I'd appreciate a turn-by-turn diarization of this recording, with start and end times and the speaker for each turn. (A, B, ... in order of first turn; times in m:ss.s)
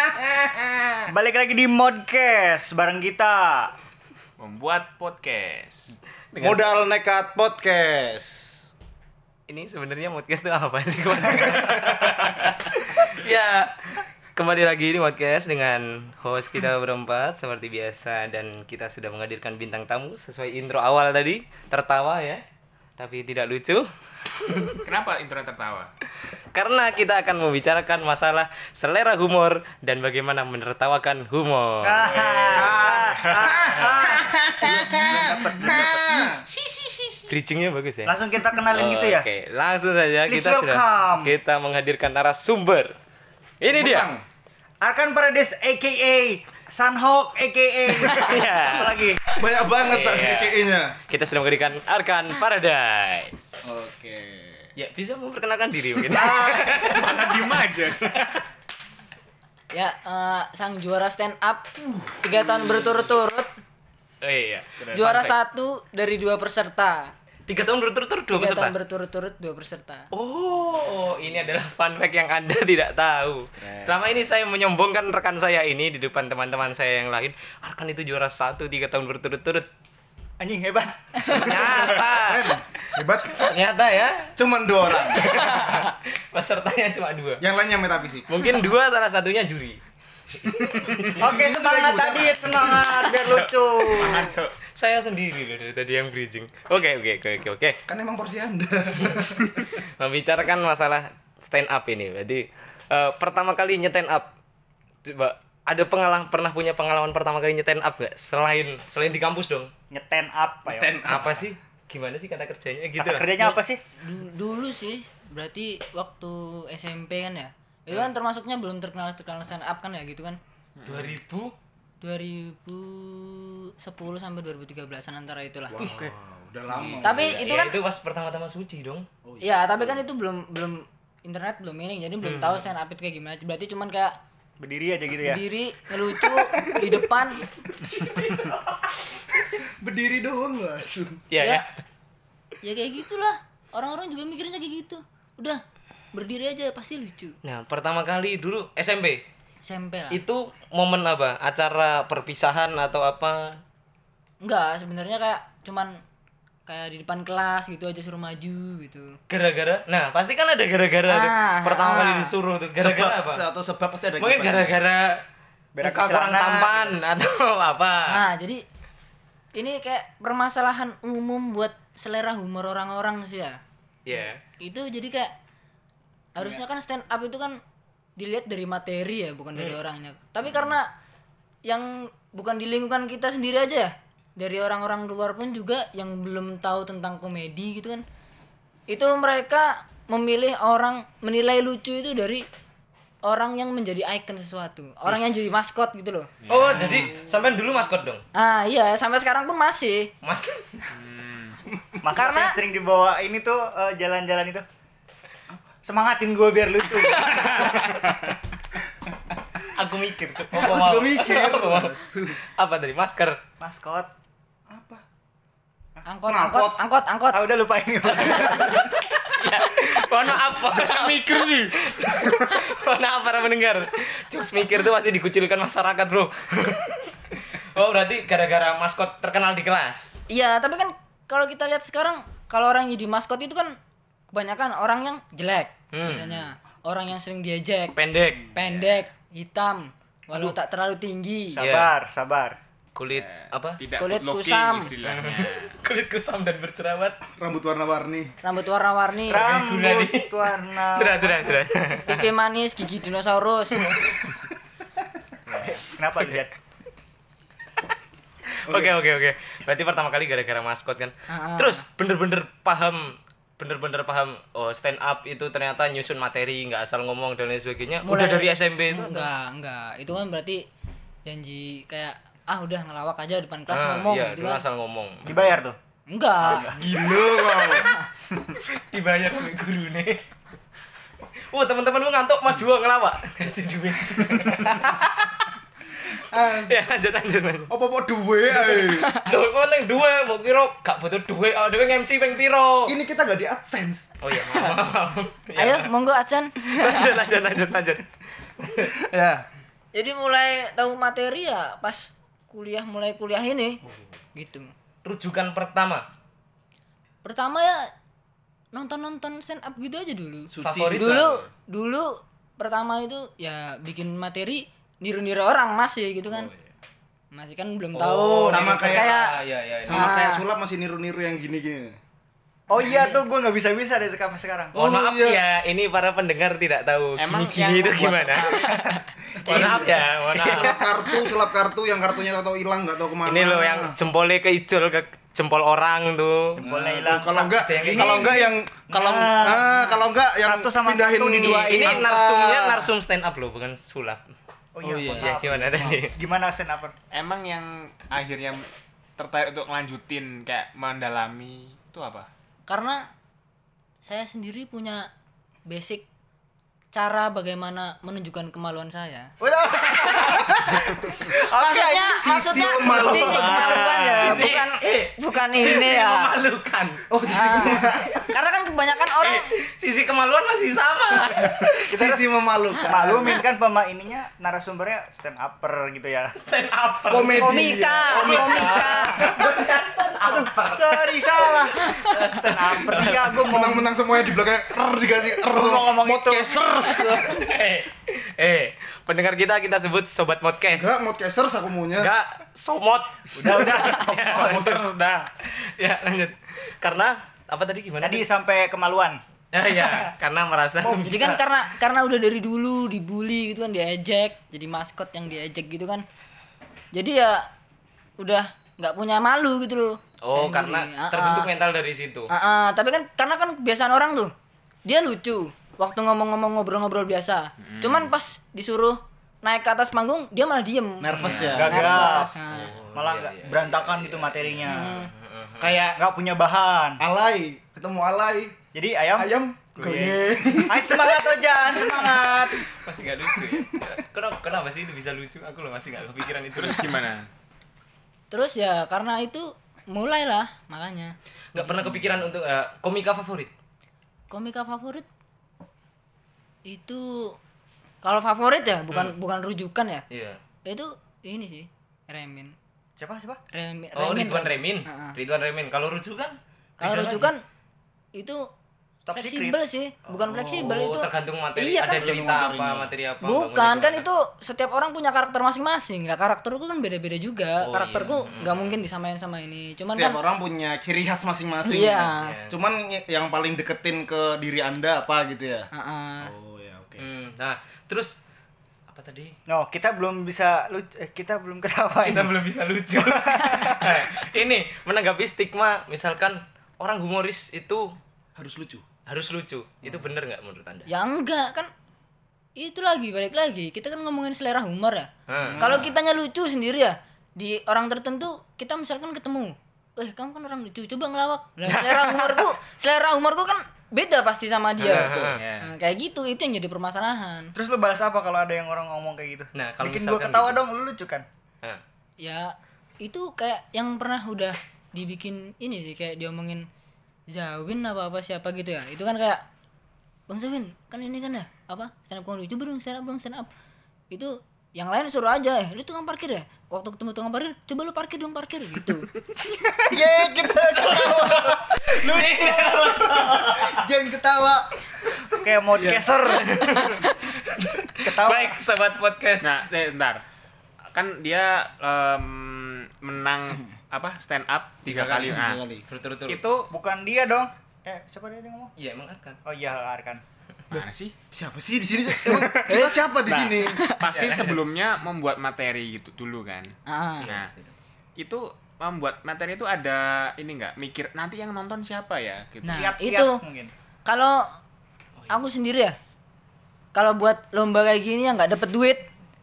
0:00.4-0:00.8 A
0:01.1-0:03.7 B
0:04.4-0:06.0 C
0:06.3-0:06.8 D
0:06.4-0:08.6 A
0:09.5-0:22.4 D
0:23.0-0:24.8 D
0:24.8-0:25.9 C
0:26.5-0:32.1 D
0:31.8-0:36.1 B
0:32.1-0:33.4 C
0:32.6-0:36.4 A
0:36.6-0:43.0 D
0:38.0-0:39.3 B
0:40.3-0:41.4 B
0:43.6-0:44.1 D
0:43.7-0:44.2 A
0:44.8-0:49.3 B
0:48.0-0:49.0 D
0:48.4-0:51.0 A
0:49.8-0:53.5 D
0:53.6-0:54.7 A
0:54.8-0:57.2 D
0:56.1-0:56.8 B
0:56.8-0:58.4 C
0:59.7-1:03.5 E
1:04.2-1:05.4 D
1:04.9-1:07.1 E
1:07.5-1:08.7 D
1:08.3-1:10.1 E
1:10.1-1:19.7 D
1:13.6-1:14.0 C
1:20.4-1:22.0 B
1:21.3-1:22.5 D
1:21.5-1:23.4 A
1:23.4-1:24.3 D
1:24.4-1:25.8 A
1:25.0-1:27.4 D
1:27.4-1:28.4 A
1:28.3-1:29.8 D
1:30.4-1:31.2 D
1:31.0-1:33.0 A
1:31.2-1:34.3 B
1:33.0-1:37.8 D
1:33.9-1:34.5 C
1:37.9-1:39.6 A
1:39.0-1:39.3 D
1:39.8-1:44.3 D
1:45.0-1:49.7 D
1:49.9-1:51.0 B
1:50.7-1:51.4 A
1:51.0-1:53.6 D
1:53.0-1:53.8 B
1:54.0-2:00.4 E
2:00.8-2:01.2 C
2:00.9-2:01.5 D
2:02.0-2:05.7 E
2:05.7-2:07.4 A
2:06.8-2:09.1 D
2:07.0-2:07.8 E
2:09.2-2:10.0 A
2:09.4-2:14.2 E
2:12.2-2:12.7 D
2:14.6-2:15.4 B
2:15.2-2:17.4 E
2:17.8-2:19.2 D
2:19.8-2:21.3 A
2:21.3-2:21.7 D
2:22.6-2:25.6 E
2:26.1-2:27.4 E
2:27.4-2:29.2 D
2:29.6-2:30.2 E
2:30.1-2:33.6 D
2:34.4-2:36.0 E
2:36.7-2:39.2 E
2:39.3-2:43.4 D
2:41.1-2:42.3 E
2:42.8-2:44.8 A
2:44.2-2:45.2 D
2:45.8-2:47.0 B
2:45.8-2:48.2 D
2:48.1-2:48.6 E
2:49.5-2:53.6 E
2:54.0-2:54.4 D
2:54.6-2:55.3 E
2:56.4-2:57.6 E
2:58.2-3:00.9 E
3:01.6-3:08.0 E
3:08.9-3:12.4 E
3:13.2-3:16.3 E
3:16.4-3:17.0 C
3:16.5-3:18.2 D
3:16.8-3:17.1 A
3:18.3-3:20.1 E
3:20.2-3:20.8 D
3:20.9-3:21.6 C
3:22.0-3:24.6 B
3:22.2-3:22.6 E
3:25.8-3:28.0 B
3:27.0-3:28.1 D
3:29.8-3:33.4 D
3:30.5-3:32.4 A
3:33.6-3:34.1 B
3:34.7-3:35.0 A
3:36.1-3:37.5 E
3:36.3-3:36.8 A
3:37.3-3:38.9 B
3:38.1-3:38.8 E
3:38.1-3:50.2 D
3:40.4-3:42.3 C
3:50.3-3:53.7 E
3:54.3-3:58.0 E
3:55.9-3:56.3 D
3:58.0-3:58.5 D
3:58.6-4:01.6 E
4:01.6-4:02.6 B
4:01.6-4:01.9 D
4:03.0-4:03.8 D
4:03.1-4:05.8 C
4:04.0-4:04.9 E
4:05.0-4:07.2 D
4:07.4-4:08.3 A
4:08.4-4:09.4 E
4:09.3-4:11.6 B
4:09.3-4:12.2 D
4:12.1-4:14.0 E
4:15.5-4:16.5 B
4:15.7-4:16.4 D
4:18.6-4:29.3 D
4:21.3-4:21.8 E
4:28.0-4:30.6 E
4:31.2-4:34.6 E
4:33.7-4:35.6 D
4:35.3-4:35.8 B
4:36.1-4:36.7 E
4:36.4-4:36.8 B
4:36.7-4:37.9 A
4:37.7-4:38.0 E
4:38.5-4:40.2 D
4:41.5-4:45.3 D
4:46.2-4:46.8 A
4:46.7-4:47.7 D
4:47.7-4:49.1 A
4:48.7-4:49.2 E
4:49.2-4:53.0 D
4:52.9-4:54.1 A
4:54.2-4:55.9 D
4:54.4-4:54.7 E
4:55.6-4:57.2 E
4:56.6-4:58.1 D
4:58.6-4:58.9 D
4:59.1-4:59.4 A
4:59.9-5:03.8 E
5:04.4-5:04.7 E
5:05.0-5:06.0 D
5:07.2-5:07.9 E
5:08.7-5:16.5 E
5:10.5-5:11.5 D
5:16.3-5:16.7 D
5:17.3-5:19.3 E
5:17.9-5:20.2 D
5:18.5-5:19.1 A
5:19.9-5:20.4 E
5:19.9-5:22.0 A
5:22.7-5:24.8 B
5:22.8-5:23.2 E
5:24.7-5:25.4 A
5:24.8-5:28.6 D
5:27.2-5:29.8 C
5:28.5-5:31.2 B
5:29.5-5:30.8 D
5:29.5-5:34.0 A
5:33.2-5:36.6 D
5:36.6-5:42.9 A
5:36.6-5:42.0 B
5:37.6-5:38.4 D
5:41.4-5:44.2 D
5:44.8-5:46.9 B
5:44.8-5:46.1 D
5:47.1-5:48.7 C
5:49.2-5:52.3 C
5:52.7-5:53.0 E
5:54.0-5:55.1 E
5:55.7-5:56.0 E
5:56.9-5:59.3 E
5:59.4-6:04.4 B
6:01.6-6:06.4 E
6:02.2-6:03.8 A
6:03.0-6:07.0 D
6:07.1-6:08.1 A
6:07.3-6:09.4 E
6:09.2-6:11.8 D
6:11.4-6:13.4 A
6:11.9-6:12.3 B
6:12.9-6:16.4 B
6:16.4-6:23.5 D
6:17.1-6:18.9 A
6:17.2-6:19.5 B
6:17.4-6:19.3 E
6:20.2-6:23.9 B
6:23.4-6:27.4 A
6:25.4-6:26.9 B
6:26.9-6:30.9 D
6:30.7-6:32.1 A
6:32.0-6:34.9 D
6:33.4-6:34.7 B
6:34.3-6:35.1 A
6:34.8-6:35.2 C
6:35.4-6:38.3 D
6:38.0-6:39.2 B
6:39.5-6:41.4 D
6:41.0-6:46.0 E
6:46.9-6:47.5 E
6:48.2-6:51.5 E
6:50.2-6:52.3 D
6:52.3-6:54.3 E
6:54.8-7:02.7 E
6:57.6-6:58.1 C
7:01.0-7:01.9 A
7:01.2-7:01.5 D
7:01.3-7:02.3 B
7:02.5-7:05.8 D
7:02.9-7:05.0 B
7:04.7-7:05.1 E
7:05.6-7:06.0 A
7:05.9-7:07.0 B
7:07.0-7:08.6 A
7:08.7-7:12.6 B
7:09.2-7:12.7 A
7:12.7-7:16.9 D
7:13.3-7:13.7 A
7:16.5-7:17.3 C
7:18.3-7:21.7 E
7:21.5-7:23.5 D
7:24.3-7:25.1 E
7:26.6-7:27.4 E
7:28.0-7:30.0 E
7:30.1-7:30.4 D
7:30.7-7:32.5 E
7:33.0-7:33.4 B
7:33.5-7:35.2 E
7:34.0-7:37.3 D
7:36.8-7:37.4 E
7:38.2-7:38.4 E
7:39.1-7:40.1 B
7:39.2-7:42.2 E
7:40.3-7:40.8 A
7:40.5-7:44.1 D
7:42.0-7:42.9 A
7:43.2-7:50.2 E
7:47.6-7:48.8 D
7:49.9-7:55.7 A
7:51.6-7:52.4 E
7:52.2-7:52.6 D
7:55.7-7:56.3 E
7:56.2-7:57.1 A
7:57.0-7:58.2 D
7:58.9-7:59.4 D
7:59.5-8:02.4 B
8:02.0-8:07.8 D
8:03.0-8:03.9 B
8:08.4-8:08.9 A
8:09.1-8:10.9 D
8:10.9-8:11.7 E
8:12.6-8:27.5 E
8:15.3-8:15.8 D
8:15.4-8:15.9 A
8:21.7-8:22.5 D
8:24.8-8:25.4 D
8:25.3-8:25.7 C
8:27.6-8:31.3 B
8:29.5-8:30.6 D
8:32.2-8:36.6 E
8:37.3-8:39.4 E
8:40.3-8:43.5 E
8:44.1-8:49.1 E
8:49.4-8:54.6 B
8:50.8-8:53.7 D
8:53.8-8:54.0 A
8:55.2-8:56.6 B
8:55.8-8:56.1 A
8:56.3-8:59.6 D
8:58.0-8:58.6 B
8:59.4-9:00.2 C
9:00.9-9:05.6 C
9:04.9-9:05.8 A
9:05.9-9:06.4 D
9:06.3-9:06.7 C
9:06.7-9:08.7 B
9:08.8-9:09.4 D
9:09.4-9:10.2 B
9:10.7-9:11.2 C
9:11.3-9:13.8 A
9:12.7-9:13.0 E
9:13.6-9:14.1 E
9:14.0-9:16.7 C
9:14.1-9:14.6 D
9:16.9-9:17.3 E
9:17.2-9:17.8 D
9:18.2-9:22.9 C
9:22.6-9:23.4 E
9:22.7-9:23.7 B
9:24.0-9:24.4 E
9:25.2-9:25.5 D
9:25.3-9:26.0 E
9:26.9-9:29.1 E